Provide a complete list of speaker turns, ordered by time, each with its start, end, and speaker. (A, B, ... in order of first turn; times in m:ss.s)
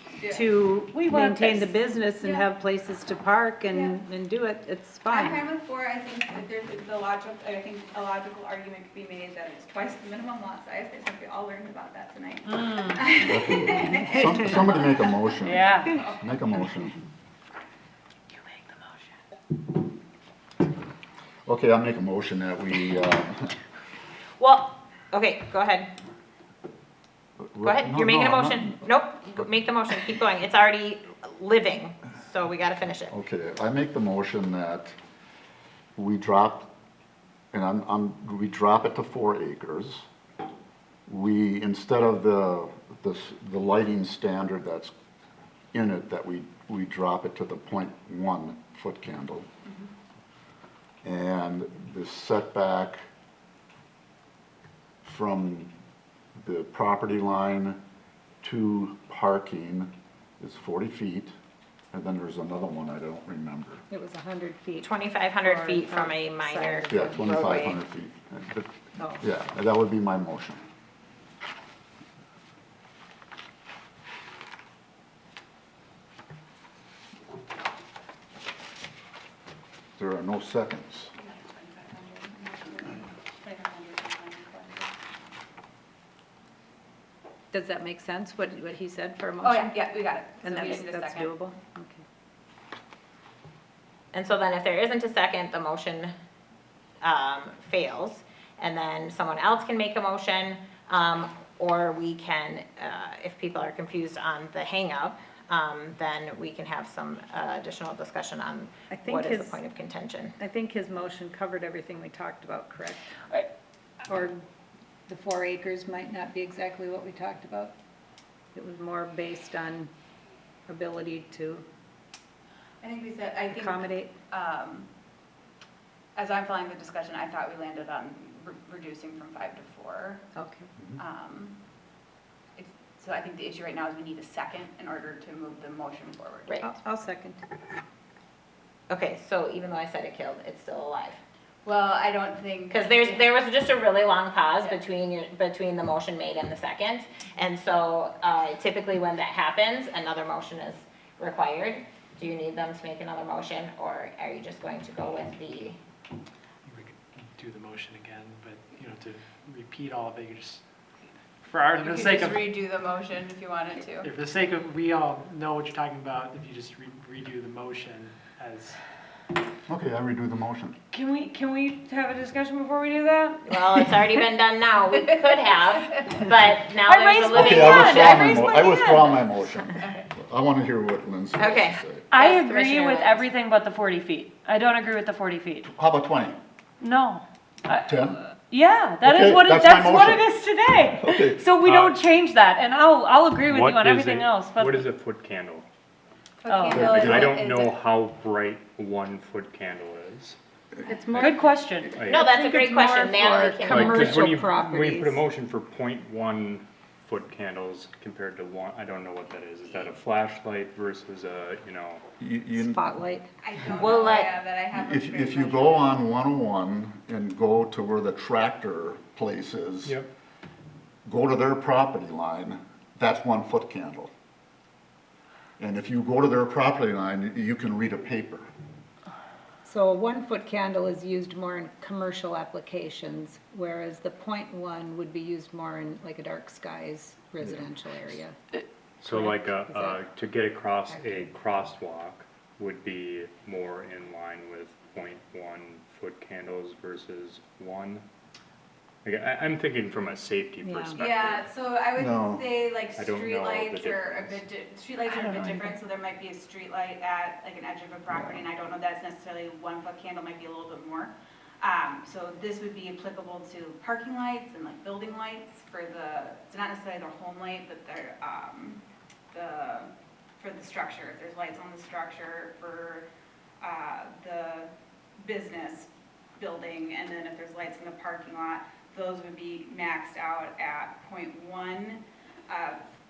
0:00.2-0:00.5 A
0:00.3-0:05.4 B
0:00.9-0:01.8 C
0:02.2-0:02.5 A
0:03.7-0:04.0 A
0:05.0-0:16.2 A
0:12.4-0:13.0 C
0:13.2-0:17.0 D
0:15.4-0:15.9 C
0:18.4-0:19.0 C
0:21.4-0:23.5 D
0:24.4-0:25.9 E
0:27.5-0:28.8 D
0:27.6-0:33.1 E
0:33.1-0:34.9 D
0:36.0-0:36.7 D
0:37.5-0:40.0 D
0:41.1-0:44.9 D
0:45.7-0:49.5 D
0:51.0-0:53.0 D
0:55.0-0:55.7 D
0:56.4-0:57.8 D
0:58.4-1:01.3 D
1:01.9-1:03.8 D
1:03.9-1:07.7 B
1:04.8-1:07.8 E
1:06.9-1:10.6 D
1:20.0-1:21.1 D
1:21.2-1:24.9 A
1:27.5-1:29.8 B
1:29.4-1:31.4 A
1:30.4-1:32.0 B
1:34.1-1:36.1 E
1:37.0-1:50.3 E
1:48.9-1:49.6 B
1:50.4-1:53.2 B
1:54.1-1:54.4 B
1:55.1-1:57.7 B
1:58.5-1:59.9 B
2:00.7-2:01.6 B
2:02.8-2:04.9 A
2:03.5-2:04.1 B
2:06.2-2:10.2 A
2:10.3-2:10.7 B
2:11.0-2:11.6 A
2:12.6-2:16.6 A
2:16.6-2:17.4 B
2:18.9-2:21.2 E
2:21.6-2:23.2 A
2:22.7-2:35.8 E
2:36.6-2:40.6 F
2:41.4-2:42.5 F
2:41.8-2:44.1 A
2:43.9-2:48.8 F
2:49.7-2:50.8 D
2:50.9-2:54.0 C
2:53.4-2:58.8 E
2:56.8-2:59.1 C
2:57.3-3:02.0 D
2:59.1-3:00.0 A
3:01.4-3:03.2 E
3:02.1-3:05.7 C
3:05.6-3:06.4 D
3:06.8-3:14.9 C
3:07.8-3:08.2 D
3:09.0-3:10.3 D
3:10.9-3:11.5 D
3:11.6-3:12.0 G
3:13.4-3:15.7 G
3:16.4-3:17.8 A
3:16.4-3:17.0 C
3:16.7-3:17.3 D
3:16.9-3:20.4 G
3:20.8-3:25.2 B
3:21.2-3:22.0 C
3:22.0-3:22.3 G
3:22.0-3:24.3 E
3:23.5-3:32.0 G
3:32.2-3:32.8 D
3:32.5-3:33.3 B
3:33.4-3:36.0 A
3:33.8-3:34.3 E
3:34.7-3:40.0 D
3:41.0-3:44.1 D
3:45.6-3:48.5 D
3:49.6-3:58.3 B
3:59.0-4:08.0 G
3:59.1-4:00.0 B
4:09.0-4:11.4 G
4:10.6-4:11.0 B
4:11.0-4:33.1 A
4:12.0-4:12.5 D
4:12.9-4:14.5 G
4:33.6-4:42.8 A